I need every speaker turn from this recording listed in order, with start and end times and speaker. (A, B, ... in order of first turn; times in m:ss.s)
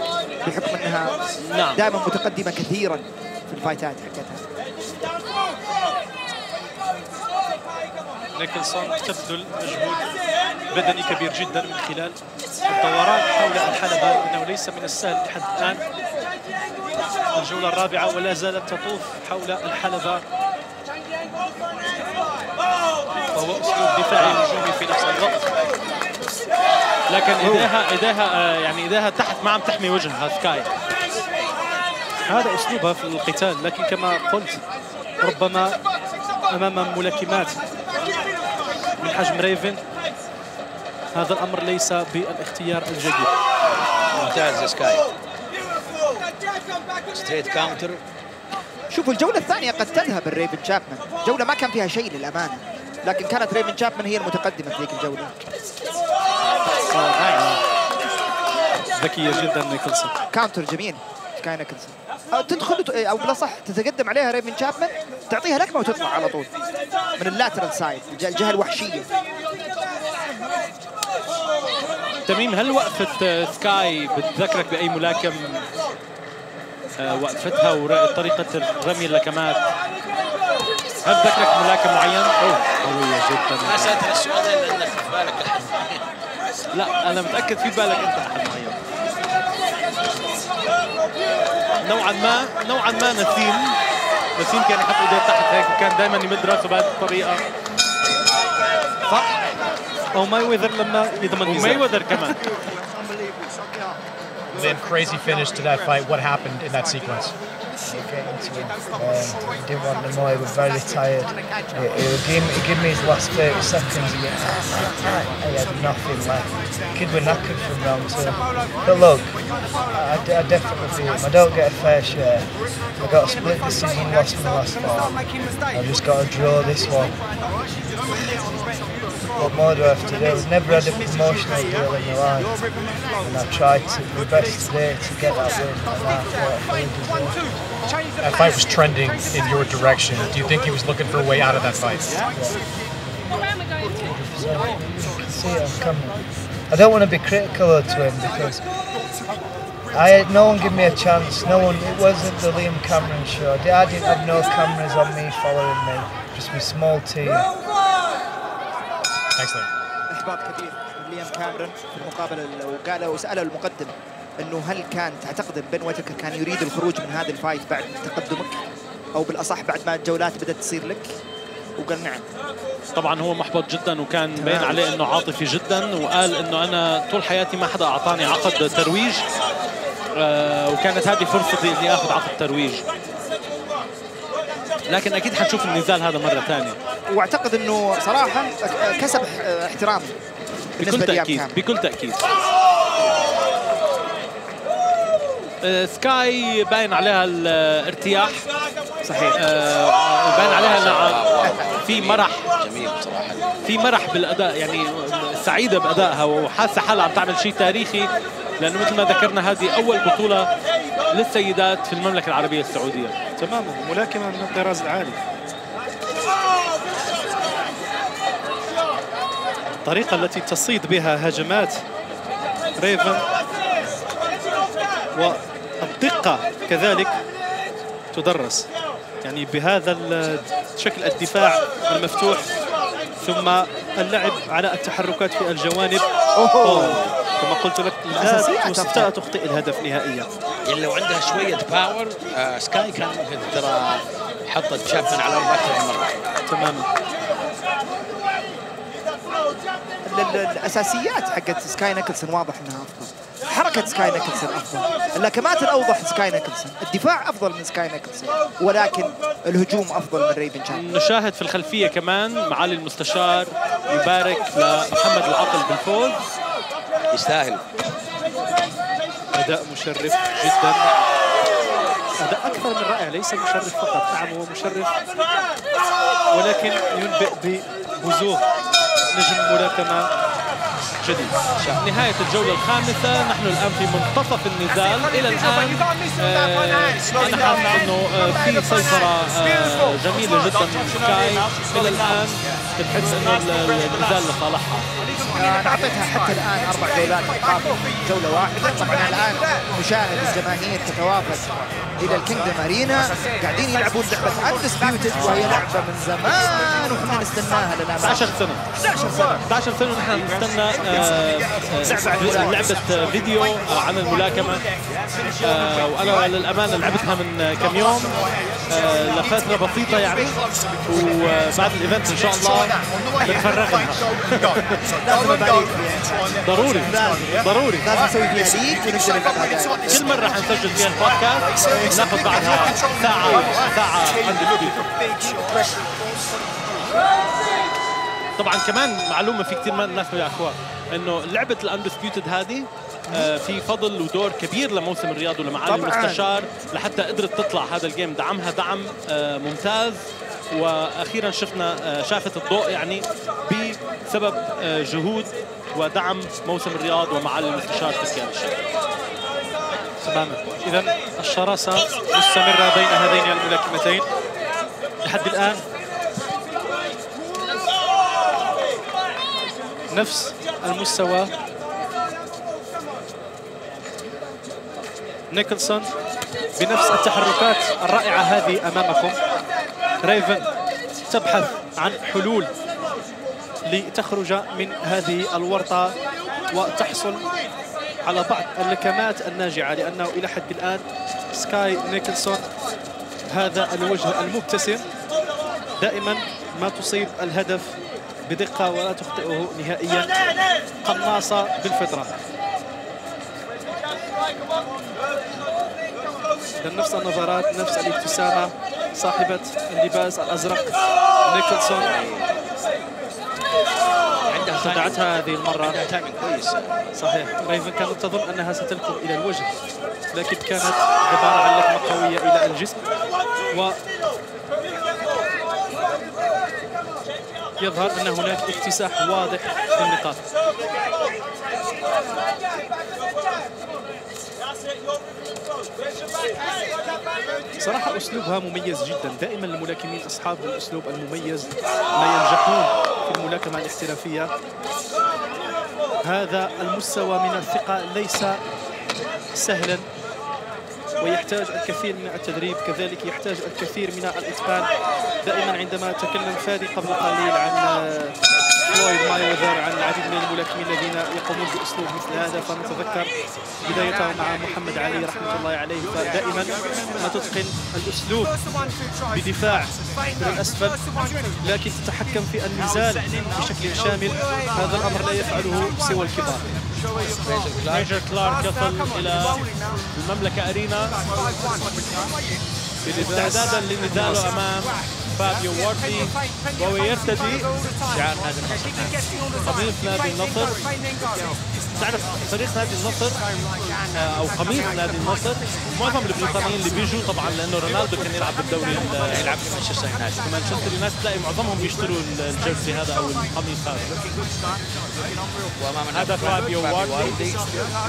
0:00.4-0:01.2 A
0:01.4-0:01.8 B
0:01.7-0:04.4 A
0:08.4-0:10.0 C
0:10.7-0:15.8 C
0:17.3-0:20.2 C
0:23.3-0:25.5 C
0:24.2-0:24.4 B
0:27.1-0:30.7 B
0:32.3-0:34.6 C
0:35.2-0:35.8 C
0:36.5-0:37.6 C
0:39.0-0:39.8 C
0:41.1-0:43.3 C
0:44.1-0:45.0 D
0:47.1-0:48.0 D
0:48.9-0:55.4 A
0:56.9-0:57.6 C
0:58.9-1:00.2 C
1:00.3-1:06.5 A
1:07.2-1:09.1 A
1:12.2-1:15.6 B
1:17.0-1:19.6 B
1:21.0-1:22.3 B
1:22.4-1:24.0 C
1:23.6-1:26.0 D
1:26.7-1:28.8 B
1:31.8-1:33.7 B
1:34.4-1:37.4 B
1:39.1-1:39.4 B
1:40.1-1:41.8 C
1:41.4-1:42.4 B
1:44.5-1:47.3 E
1:47.9-1:59.4 F
1:59.9-2:05.2 F
2:05.7-2:07.1 F
2:09.4-2:12.6 F
2:13.2-2:17.5 F
2:18.2-2:22.1 E
2:22.3-2:22.6 F
2:24.0-2:28.6 F
2:29.9-2:37.5 F
2:39.4-2:39.7 E
2:40.1-2:48.6 A
2:49.1-2:51.2 A
2:51.8-2:52.2 A
2:52.9-2:59.2 B
2:54.4-2:54.8 C
3:00.2-3:02.8 B
3:04.9-3:06.8 B
3:07.1-3:10.1 A
3:10.8-3:11.6 A
3:10.8-3:12.2 B
3:15.6-3:18.4 B
3:19.0-3:19.4 A
3:19.3-3:22.5 B
3:20.3-3:23.5 D
3:23.6-3:28.1 B
3:28.6-3:30.5 B
3:31.1-3:33.1 B
3:33.4-3:35.2 C
3:39.8-3:41.8 C
3:42.8-3:43.2 C
3:45.2-3:47.1 C
3:48.1-3:48.7 C
3:49.2-3:52.5 C
3:53.2-3:56.0 C
3:56.4-3:57.0 A
3:56.6-4:00.3 C
3:58.1-3:59.1 A
4:00.6-4:06.2 D
4:06.5-4:06.9 C
4:10.0-4:20.9 A
4:20.7-4:26.2 B
4:27.1-4:27.6 D
4:29.3-4:31.0 C
4:32.2-4:34.9 C
4:36.3-4:38.4 C
4:39.1-4:40.1 C
4:41.0-4:54.8 B
4:41.6-4:41.8 D
4:55.4-5:09.4 A
5:05.1-5:05.6 B
5:08.0-5:08.6 B
5:09.4-5:14.6 B
5:11.8-5:12.6 A
5:15.4-5:18.1 B
5:18.7-5:20.4 B
5:20.9-5:24.7 B
5:25.0-5:26.2 A
5:26.4-5:27.8 B
5:26.8-5:30.0 A
5:29.9-5:35.4 B
5:38.4-5:58.6 B
5:45.6-5:46.3 A
6:00.0-6:04.0 C
6:05.0-6:05.6 C
6:09.9-6:11.3 C
6:15.3-6:15.9 C
6:16.6-6:19.2 C
6:20.0-6:20.5 C
6:21.1-6:22.5 C
6:23.7-6:25.9 C
6:26.5-6:27.2 C
6:28.0-6:32.4 C
6:33.3-6:34.8 C
6:35.8-6:37.8 C
6:38.3-6:40.1 C
6:40.8-6:42.1 C
6:46.6-6:50.7 C
6:51.2-6:51.9 C
6:51.7-6:52.4 D
6:54.3-6:55.0 D
6:54.6-6:55.8 C
6:55.6-6:57.0 D
6:57.0-6:59.5 C
7:00.1-7:02.8 C
7:03.5-7:03.8 C
7:07.6-7:10.2 C
7:17.6-7:24.3 C
7:26.0-7:28.4 C
7:29.3-7:29.8 C
7:31.0-7:34.7 C
7:35.2-7:38.1 C
7:38.7-7:43.1 C
7:43.6-7:48.3 C
7:49.1-7:50.8 C
7:51.4-7:56.4 C
7:57.2-7:57.9 D
7:57.7-8:01.0 B
8:02.8-8:04.2 C
8:02.9-8:07.4 B
8:07.9-8:09.0 D
8:09.4-8:10.6 B
8:11.8-8:13.2 B
8:13.9-8:19.3 B
8:19.1-8:20.3 D
8:20.2-8:23.9 B
8:25.6-8:27.4 D
8:25.9-8:27.2 B